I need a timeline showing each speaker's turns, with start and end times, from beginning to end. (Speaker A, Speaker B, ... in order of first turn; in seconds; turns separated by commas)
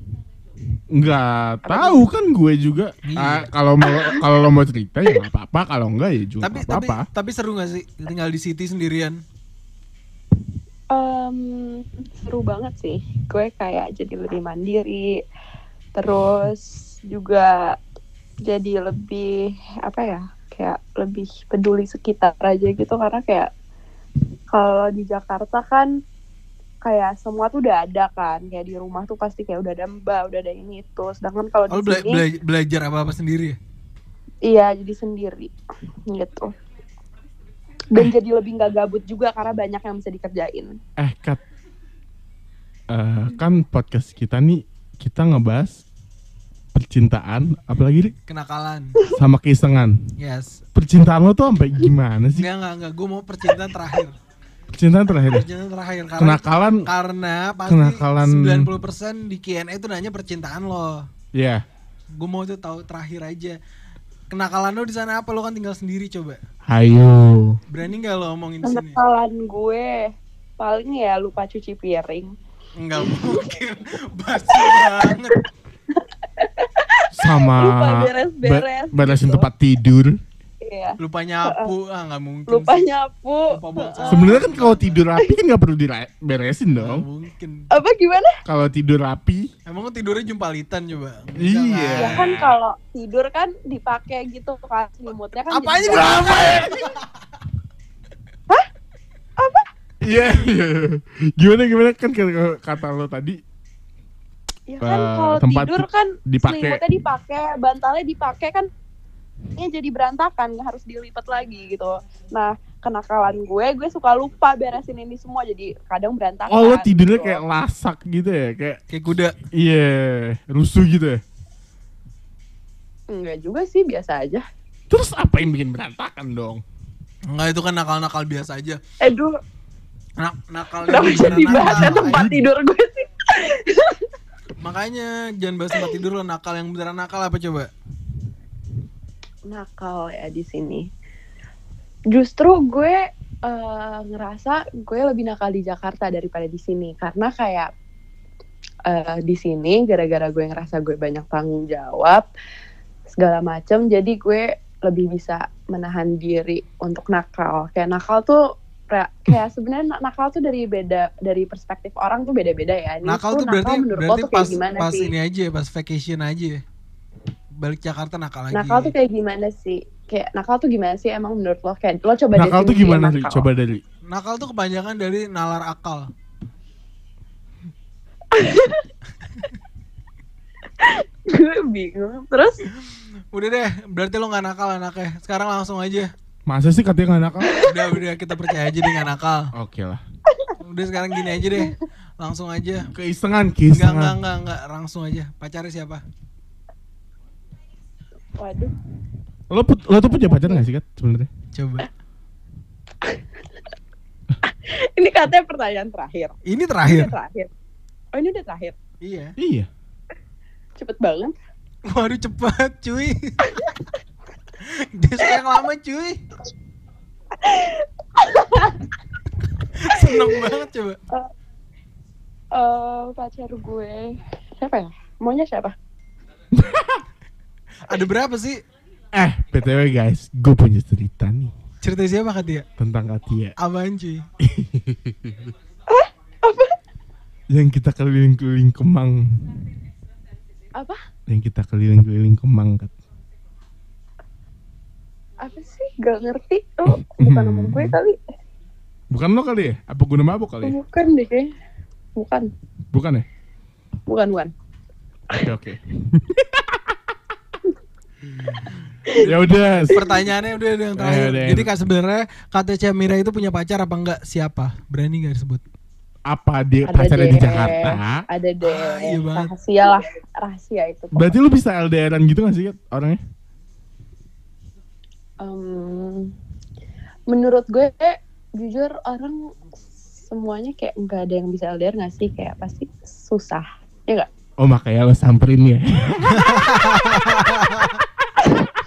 Speaker A: 0.9-7.0, Speaker B: 1.6-2.1, Speaker C: 3.0-3.5, Speaker B: 3.8-4.3, Speaker C: 6.4-9.2, Speaker B: 10.9-15.1, Speaker B: 15.9-17.7, Speaker B: 18.4-23.5, Speaker B: 24.5-25.9, Speaker B: 26.8-32.2, Speaker C: 31.7-33.6, Speaker B: 34.4-35.5, Speaker B: 36.1-36.5, Speaker B: 37.9-40.8, Speaker A: 41.0-41.4, Speaker A: 42.9-45.8, Speaker A: 46.7-48.1, Speaker C: 48.3-49.0, Speaker A: 49.1-50.0, Speaker C: 50.2-50.6, Speaker A: 50.7-52.5, Speaker C: 52.3-54.1, Speaker A: 54.7-55.5, Speaker C: 55.3-61.0, Speaker A: 56.2-56.9, Speaker A: 57.6-58.7, Speaker A: 61.3-61.6, Speaker C: 62.1-63.6, Speaker C: 64.3-66.4, Speaker A: 66.7-67.6, Speaker C: 67.7-69.0, Speaker B: 68.6-72.3, Speaker C: 72.8-75.4, Speaker B: 73.1-73.4, Speaker B: 74.5-75.3, Speaker B: 76.4-79.5, Speaker A: 77.1-80.2, Speaker B: 80.6-81.7, Speaker C: 81.0-82.9, Speaker B: 82.5-84.4, Speaker C: 83.5-85.0, Speaker A: 84.1-87.0, Speaker C: 86.7-87.6, Speaker B: 87.7-88.3, Speaker A: 88.5-89.5, Speaker C: 89.7-92.3, Speaker A: 91.4-92.5, Speaker B: 91.9-96.7, Speaker C: 95.5-97.1, Speaker A: 95.9-96.7, Speaker B: 99.4-99.6, Speaker A: 100.0-103.4, Speaker B: 104.7-108.7, Speaker A: 104.8-106.8, Speaker B: 109.5-117.4, Speaker A: 116.5-118.8, Speaker C: 118.9-119.4, Speaker A: 119.5-121.2, Speaker B: 123.1-124.4, Speaker A: 124.9-126.6, Speaker C: 127.3-128.8, Speaker B: 129.0-129.3, Speaker C: 130.2-132.3, Speaker B: 130.8-134.0, Speaker A: 131.3-132.5, Speaker C: 134.6-137.7, Speaker B: 139.5-140.8, Speaker B: 142.1-147.7, Speaker B: 148.9-152.2, Speaker B: 153.1-165.1, Speaker C: 163.0-166.6, Speaker C: 167.6-168.9, Speaker B: 168.5-173.4, Speaker A: 172.3-173.8, Speaker C: 174.1-176.1, Speaker B: 178.3-178.8, Speaker B: 180.8-182.6, Speaker C: 182.8-186.1, Speaker A: 186.5-187.6, Speaker B: 187.4-187.7, Speaker C: 187.6-189.5, Speaker A: 189.5-190.0, Speaker C: 190.6-192.9, Speaker B: 191.2-191.7, Speaker A: 192.9-194.2, Speaker C: 193.7-196.0, Speaker B: 198.3-198.7, Speaker A: 199.5-201.3, Speaker B: 200.0-200.6, Speaker C: 201.5-201.9, Speaker B: 204.5-207.5, Speaker C: 206.4-207.1, Speaker B: 208.1-208.7, Speaker C: 209.0-209.3, Speaker A: 209.4-209.7, Speaker B: 210.8-211.3, Speaker C: 211.9-213.3, Speaker B: 213.4-213.8, Speaker C: 214.6-216.2, Speaker B: 217.4-218.9, Speaker C: 219.8-221.0, Speaker B: 220.0-220.3, Speaker B: 222.5-225.7, Speaker A: 226.5-227.0, Speaker C: 227.9-228.6, Speaker A: 229.1-231.5, Speaker C: 231.8-232.7, Speaker A: 232.8-233.5, Speaker C: 233.6-234.2, Speaker A: 234.4-235.5, Speaker B: 235.9-236.7, Speaker A: 237.5-239.4, Speaker A: 241.3-242.9, Speaker B: 245.4-248.2, Speaker A: 246.9-247.9, Speaker A: 249.1-250.8, Speaker B: 250.6-251.5, Speaker B: 252.2-252.5, Speaker A: 252.9-253.3, Speaker B: 254.1-254.5, Speaker A: 255.4-257.0, Speaker A: 259.1-260.0, Speaker C: 259.9-265.6, Speaker A: 260.9-261.7, Speaker A: 266.2-268.2, Speaker B: 266.9-271.4, Speaker C: 268.6-269.5, Speaker A: 271.1-273.2, Speaker B: 275.4-276.3, Speaker B: 277.3-279.4, Speaker B: 280.3-284.3, Speaker A: 284.6-286.9, Speaker C: 286.3-287.9